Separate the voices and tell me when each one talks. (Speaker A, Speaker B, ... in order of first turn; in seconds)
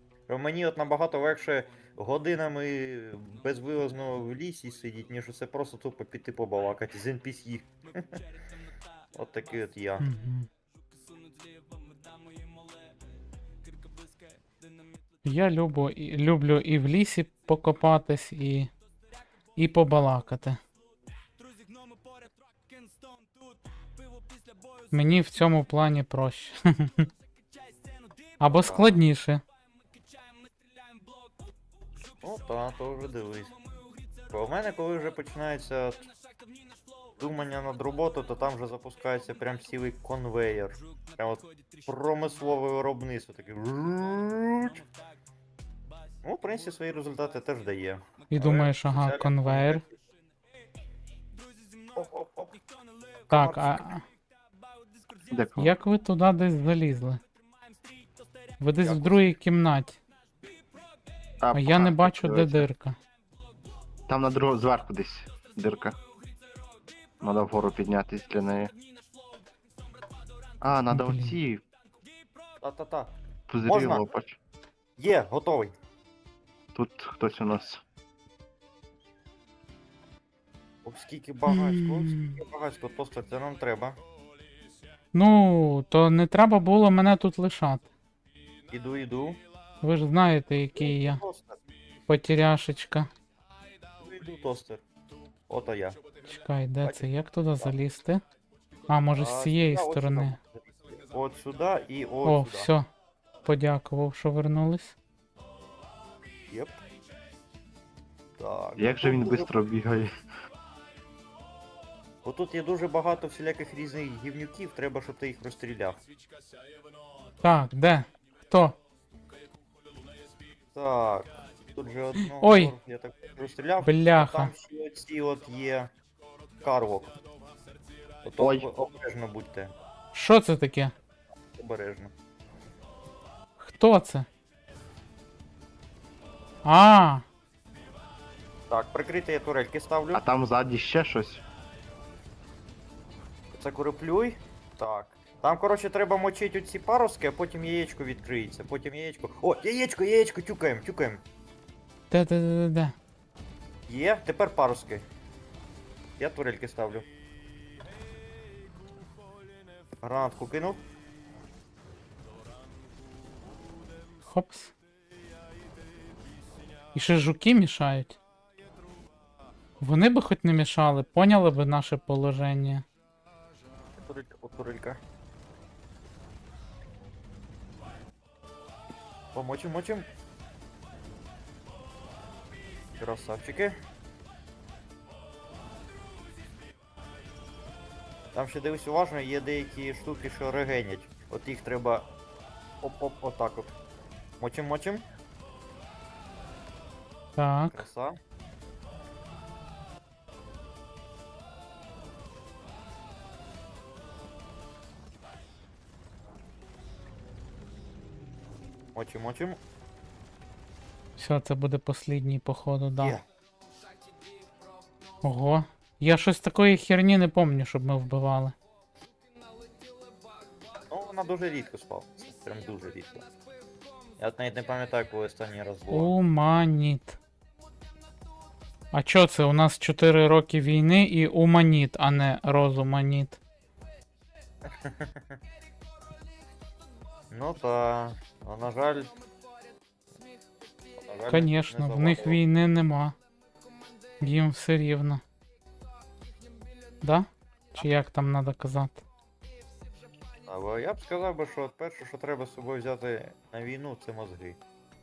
Speaker A: 0.3-8.2, 9.1-10.1, 28.4-29.0, 32.2-33.5, 34.3-36.1, 37.2-44.8, 46.2-49.8, 51.9-52.6, 53.3-53.8, 58.8-59.2, 72.6-74.1, 75.0-75.7, 80.8-84.0, 88.7-89.4, 90.8-91.6, 94.0-94.8, 95.5-96.0, 96.8-97.1, 99.1-102.7, 106.5-106.8, 108.4-109.5, 112.2-116.0, 120.7-125.9, 126.6-127.1, 128.2-129.7, 131.6-132.1, 138.7-140.2, 143.5-151.2, 153.9-155.1, 156.2-157.1, 160.0-160.8, 174.0-175.0, 179.3-180.1, 183.0-183.8, 188.3-192.1, 192.8-193.7, 194.4-195.0, 197.7-198.2, 208.9-209.6, 213.0-213.2, 220.9-223.2, 224.2-226.1, 234.7-235.4, 237.3-239.2, 241.0-242.4, 250.4-254.6
Speaker B: 10.0-10.5, 15.2-18.7, 19.6-20.6, 24.9-27.1, 28.4-29.4, 48.3-49.8, 53.3-54.0, 55.6-57.2, 58.6-60.0, 61.5-63.0, 70.9-71.4, 81.5-82.4, 85.1-87.9, 89.8-91.2, 92.1-93.1, 96.2-98.2, 98.9-100.4, 102.2-102.9, 103.4-105.0, 117.4-118.8, 122.2-122.7, 123.8-124.5, 130.1-130.9, 133.6-134.3, 136.6-137.2, 152.1-152.9, 164.2-164.7, 166.9-168.2, 169.8-172.8, 197.3-197.9, 211.2-213.2, 215.2-218.5, 225.9-227.2, 228.9-233.4, 241.3-243.2, 244.2-245.2, 247.0-249.0
Speaker C: 55.3-55.7, 61.4-62.7, 64.1-66.0, 67.2-68.7, 70.6-71.6, 73.5-74.4, 76.7-77.8, 108.8-110.1, 128.4-128.7, 140.1-141.4